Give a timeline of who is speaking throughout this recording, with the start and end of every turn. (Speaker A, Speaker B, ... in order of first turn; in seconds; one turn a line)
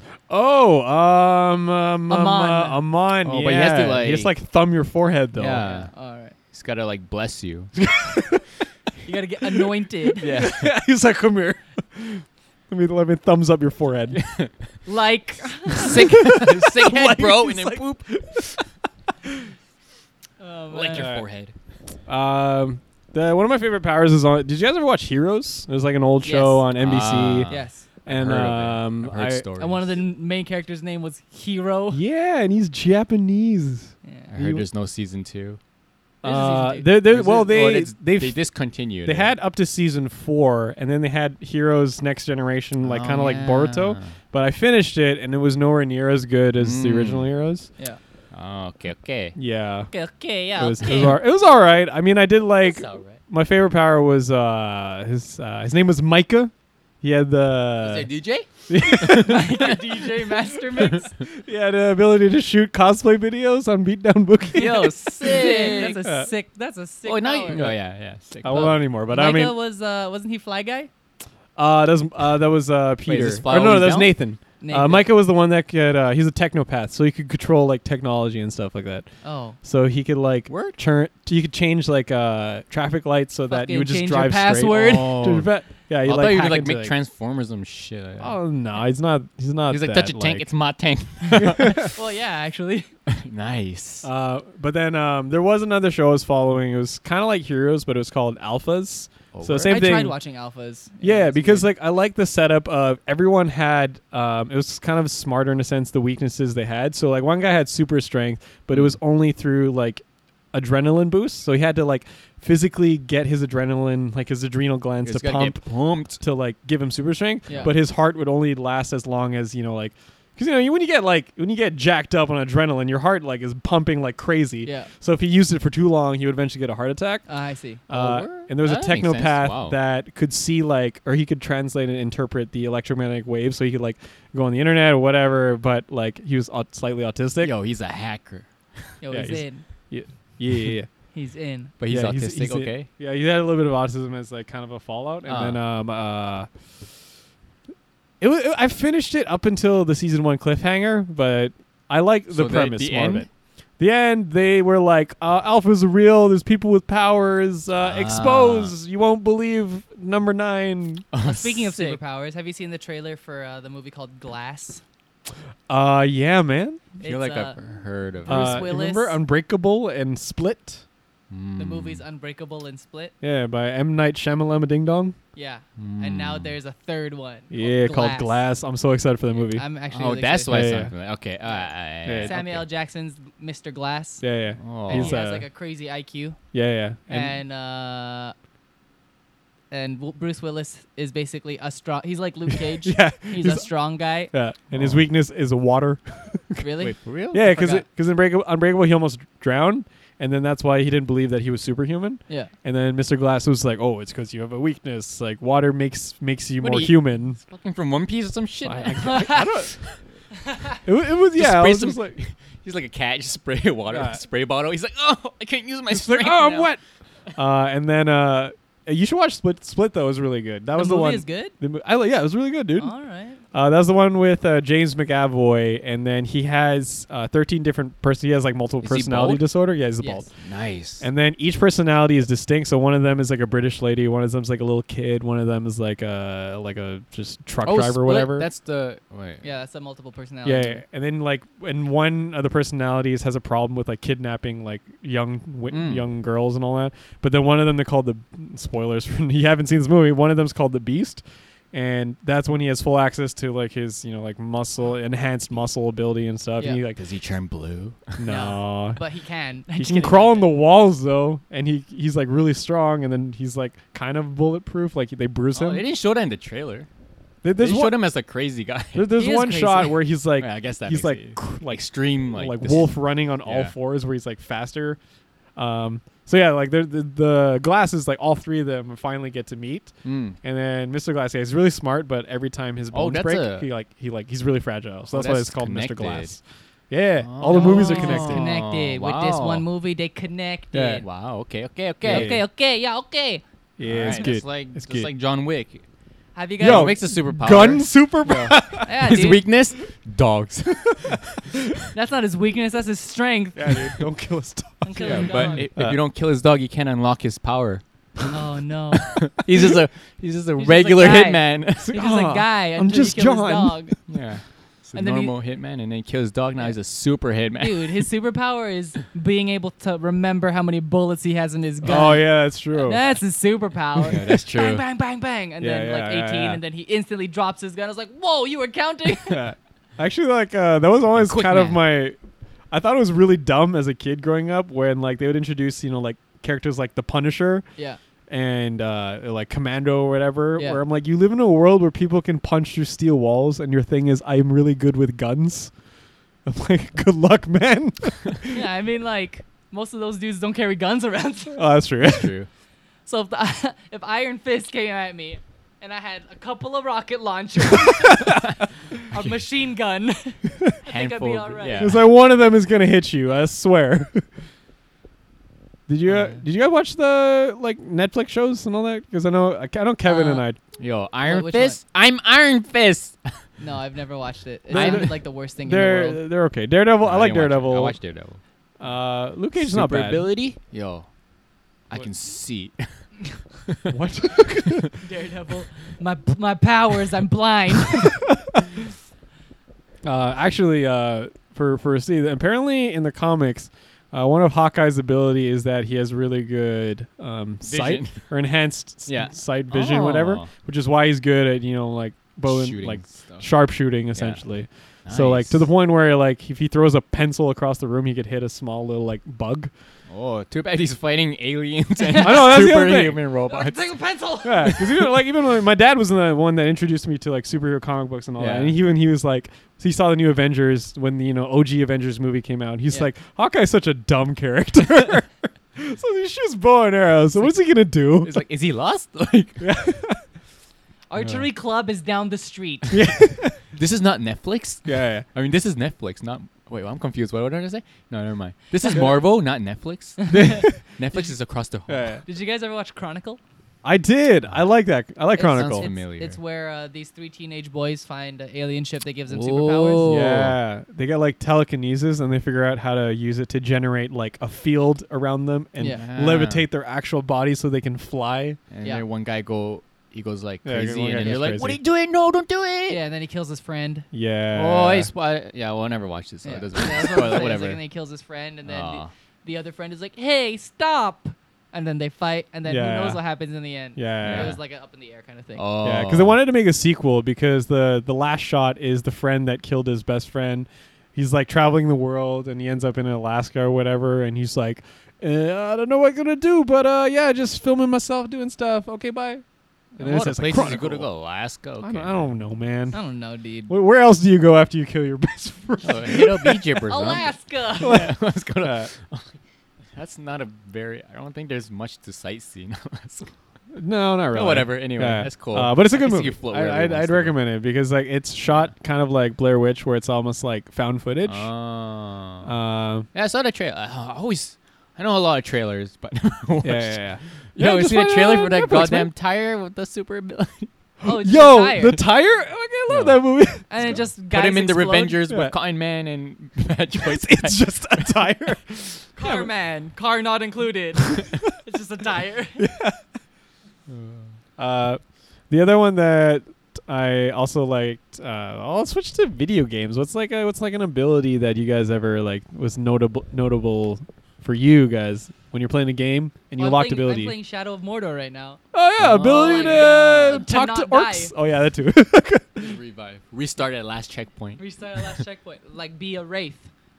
Speaker A: 0.3-5.7
Speaker B: 2.1-2.8
Speaker C: 3.2-4.3
Speaker C: 5.3-5.9
Speaker B: 5.6-6.3
Speaker C: 6.5-7.7
Speaker A: 7.8-8.5
Speaker B: 9.0-10.3
Speaker C: 10.2-10.7
Speaker A: 10.2-14.2
Speaker C: 14.1-14.5
Speaker B: 14.8-16.0
Speaker C: 15.7-18.0
Speaker A: 15.7-18.6
Speaker A: 19.2-19.5
Speaker B: 20.4-21.1
Speaker C: 20.7-21.5
Speaker A: 20.9-21.2
Speaker A: 22.1-27.5
Speaker B: 26.2-26.6
Speaker C: 26.8-30.0
Speaker B: 27.5-27.8
Speaker A: 28.1-29.5
Speaker B: 29.6-32.0
Speaker A: 31.9-34.6
Speaker B: 34.0-34.3
Speaker C: 34.3-35.6
Speaker B: 36.2-36.9
Speaker A: 36.2-38.4
Speaker C: 37.0-39.3
Speaker A: 39.0-47.7
Speaker C: 42.8-44.1
Speaker C: 46.6-47.3
Speaker C: 48.3-49.3
Speaker A: 49.4-49.9
Speaker B: 49.9-51.2
Speaker A: 50.5-58.1
Speaker C: 52.6-53.2
Speaker C: 57.8-59.8
Speaker A: 58.7-59.7
Speaker B: 59.1-61.1
Speaker A: 61.2-66.3
Speaker C: 64.5-66.0
Speaker B: 64.6-67.6
Speaker C: 67.0-68.8
Speaker A: 67.5-67.8
Speaker A: 68.4-69.5
Speaker B: 68.5-70.9
Speaker A: 71.5-79.1
Speaker C: 73.0-74.2
Speaker B: 74.6-75.1
Speaker B: 79.2-79.6
Speaker A: 79.6-87.0
Speaker C: 80.5-80.8
Speaker B: 83.5-85.2
Speaker C: 84.7-85.5
Speaker C: 86.0-88.4
Speaker A: 88.2-90.5
Speaker C: 89.7-91.9
Speaker B: 91.3-92.9
Speaker A: 91.4-91.9
Speaker C: 93.1-94.1
Speaker A: 94.0-100.1
Speaker C: 99.3-99.8
Speaker B: 99.6-101.7
Speaker A: 101.0-127.2
Speaker C: 115.0-116.2
Speaker B: 124.6-124.9
Speaker B: 127.3-127.8
Speaker A: 127.9-137.5
Speaker C: 127.9-129.8
Speaker C: 137.4-138.9
Speaker B: 139.0-139.6
Speaker A: 139.1-140.9
Speaker B: 141.1-141.7
Speaker C: 141.8-142.9
Speaker A: 141.9-146.5
Speaker C: 145.2-145.6
Speaker A: 148.2-153.3
Speaker C: 152.3-153.3
Speaker A: 153.8-161.0
Speaker C: 157.8-158.7
Speaker C: 161.1-162.0
Speaker B: 161.2-164.8
Speaker A: 165.7-166.9
Speaker B: 167.0-167.6
Speaker C: 167.0-168.7
Speaker B: 168.2-169.2
Speaker A: 168.2-170.8
Speaker C: 171.3-172.0
Speaker B: 171.6-173.1
Speaker A: 173.2-175.2
Speaker B: 175.3-178.4
Speaker C: 175.8-176.6
Speaker A: 177.5-179.6
Speaker B: 179.4-180.6
Speaker C: 179.9-182.6
Speaker A: 180.5-180.9
Speaker A: 182.0-182.3
Speaker B: 182.2-184.2
Speaker A: 184.2-185.5
Speaker C: 184.6-185.2
Speaker B: 184.9-186.4
Speaker A: 186.5-187.3
Speaker B: 187.1-188.3
Speaker B: 189.7-194.3
Speaker A: 192.8-193.7
Speaker A: 194.3-196.6
Speaker C: 194.7-195.0
Speaker B: 196.6-197.8
Speaker C: 196.8-197.4
Speaker A: 197.3-207.4
Speaker C: 206.6-210.0
Speaker A: 208.6-209.8
Speaker B: 209.0-209.5
Speaker B: 210.5-210.8
Speaker A: 210.8-212.2
Speaker C: 211.3-216.7
Speaker A: 213.9-214.2
Speaker A: 215.9-216.8
Speaker A: 217.3-222.9
Speaker B: 220.8-221.5
Speaker B: 222.8-223.4
Speaker A: 223.5-230.3
Speaker C: 228.8-229.4
Speaker B: 230.0-230.2
Speaker C: 230.4-231.1
Speaker A: 231.0-238.5
Speaker C: 237.6-239.4
Speaker B: 239.4-240.8
Speaker A: 240.4-257.0
Speaker C: 245.7-246.0
Speaker C: 256.9-258.2
Speaker A: 258.2-259.0
Speaker B: 258.3-260.5
Speaker A: 259.7-265.8
Speaker C: 265.5-266.9
Speaker A: 267.4-268.0
Speaker C: 267.6-269.1
Speaker A: 268.9-275.0
Speaker B: 269.1-270.0
Speaker C: 270.4-273.7
Speaker A: 275.6-288.5
Speaker C: 280.0-280.4
Speaker C: 282.9-283.7
Speaker C: 285.1-286.3
Speaker C: 287.2-289.6
Speaker B: 287.5-291.1
Speaker A: 290.7-291.0
Speaker C: 291.0-292.4
Speaker A: 292.0-292.4
Speaker B: 292.1-293.4
Speaker A: 293.8-295.1
Speaker C: 293.8-295.8
Speaker B: 294.0-294.3
Speaker B: 296.3-297.0
Speaker C: 296.6-301.4
Speaker A: 296.6-299.1
Speaker B: 298.8-299.4
Speaker B: 301.9-303.9
Speaker A: 303.5-306.0
Speaker B: 304.8-305.7
Speaker C: 305.0-307.8
Speaker B: 308.3-309.2
Speaker C: 309.0-312.0
Speaker B: 310.6-313.9
Speaker A: 311.8-313.9
Speaker C: 314.1-318.1
Speaker B: 314.9-315.3
Speaker B: 317.6-329.5
Speaker A: 321.8-323.0
Speaker C: 324.0-324.8
Speaker A: 325.6-326.6
Speaker A: 329.2-332.2
Speaker C: 331.1-331.8
Speaker A: 332.7-337.6
Speaker A: 338.3-345.7
Speaker A: 346.4-348.6
Speaker B: 348.5-351.6
Speaker A: 351.5-352.3
Speaker C: 352.0-352.5
Speaker B: 353.1-358.4
Speaker A: 357.9-358.4
Speaker B: 359.1-361.9
Speaker C: 360.9-362.0
Speaker A: 361.8-364.3
Speaker A: 365.9-370.6
Speaker B: 370.0-370.4
Speaker C: 370.8-373.3
Speaker B: 371.2-371.8
Speaker B: 373.6-376.2
Speaker A: 374.7-378.0
Speaker C: 374.7-375.2
Speaker C: 377.0-378.4
Speaker A: 378.8-380.2
Speaker C: 379.6-381.1
Speaker C: 381.9-382.9
Speaker C: 383.7-383.9
Speaker A: 383.9-384.9
Speaker B: 385.0-388.2
Speaker A: 390.0-409.7
Speaker C: 397.6-398.2
Speaker C: 399.1-400.5
Speaker C: 402.4-403.5
Speaker C: 404.1-404.4
Speaker C: 405.1-405.6
Speaker C: 410.1-414.0
Speaker B: 412.0-412.4
Speaker A: 412.2-413.2
Speaker B: 413.5-414.8
Speaker A: 414.4-428.4
Speaker C: 418.4-418.7
Speaker C: 428.2-429.6
Speaker A: 429.6-430.2
Speaker B: 431.1-433.0
Speaker A: 432.9-433.6
Speaker C: 433.7-442.2
Speaker A: 434.9-435.2
Speaker B: 440.2-440.7
Speaker A: 440.3-440.8
Speaker A: 441.9-442.2
Speaker B: 442.2-443.4
Speaker A: 443.8-445.9
Speaker B: 445.4-450.2
Speaker C: 445.4-446.4
Speaker C: 449.3-450.6
Speaker A: 450.1-458.6
Speaker C: 455.9-456.6
Speaker C: 458.7-463.0
Speaker A: 460.6-461.8
Speaker B: 462.9-464.1
Speaker A: 464.1-465.1
Speaker C: 464.5-467.8
Speaker B: 466.4-475.6
Speaker C: 468.6-469.1
Speaker A: 472.7-473.2
Speaker A: 473.9-474.6
Speaker C: 474.2-474.6
Speaker C: 475.6-476.4
Speaker A: 475.8-489.4
Speaker C: 490.0-492.2
Speaker A: 490.0-491.1
Speaker A: 491.8-493.0
Speaker B: 492.9-493.7
Speaker A: 493.7-496.8
Speaker C: 495.8-499.4
Speaker B: 496.8-498.0
Speaker A: 497.8-498.9
Speaker C: 499.9-503.3
Speaker A: 503.7-511.5
Speaker C: 504.3-507.4
Speaker C: 511.2-512.5
Speaker A: 512.4-513.1
Speaker C: 513.1-520.7
Speaker A: 516.6-519.1
Speaker A: 521.0-523.9
Speaker B: 521.0-522.0
Speaker C: 522.9-528.3
Speaker B: 523.7-525.2
Speaker A: 525.2-525.5
Speaker A: 527.0-529.5
Speaker B: 529.1-532.6
Speaker A: 532.6-533.0
Speaker C: 533.9-534.3
Speaker A: 534.6-547.3
Speaker B: 546.6-548.6
Speaker A: 548.7-552.8
Speaker C: 549.0-550.4
Speaker B: 549.1-551.3
Speaker C: 552.6-555.2
Speaker B: 554.6-556.7